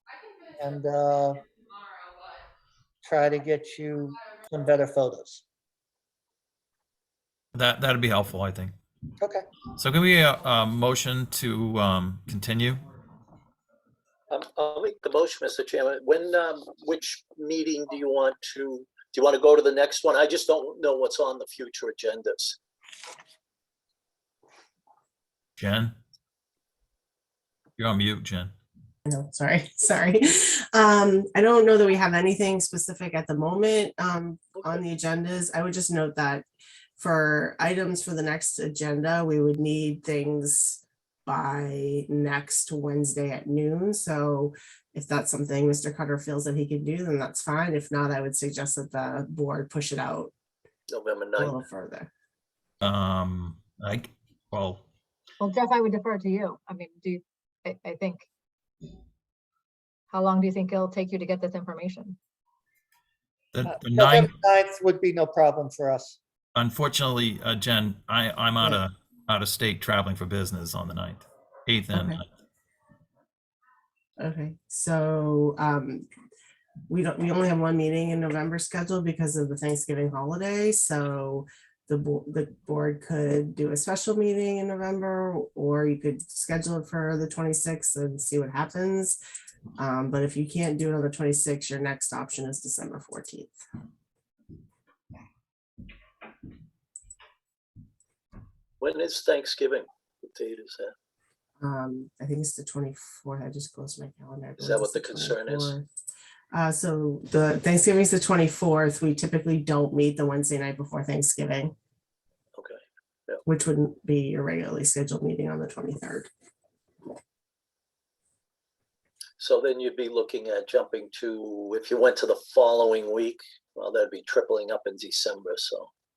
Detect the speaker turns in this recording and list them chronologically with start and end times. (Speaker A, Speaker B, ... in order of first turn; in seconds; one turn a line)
Speaker A: 0.6-1.4
Speaker A: 3.0-5.4
Speaker B: 7.5-8.7
Speaker B: 9.7-12.8
Speaker C: 14.3-22.6
Speaker B: 25.6-25.9
Speaker B: 27.8-28.5
Speaker D: 29.0-50.3
Speaker C: 50.9-51.6
Speaker D: 51.4-52.1
Speaker B: 52.8-54.8
Speaker E: 55.4-58.3
Speaker E: 60.1-62.2
Speaker B: 63.5-64.3
Speaker A: 63.6-66.2
Speaker B: 66.5-72.2
Speaker D: 71.9-72.2
Speaker D: 74.2-76.0
Speaker D: 76.9-89.2
Speaker D: 89.8-93.6
Speaker C: 98.8-100.9
Speaker D: 101.6-105.9
Speaker C: 104.6-105.8
Speaker D: 106.5-111.7
Speaker C: 112.5-113.4
Speaker D: 113.5-116.3
Speaker C: 119.4-125.9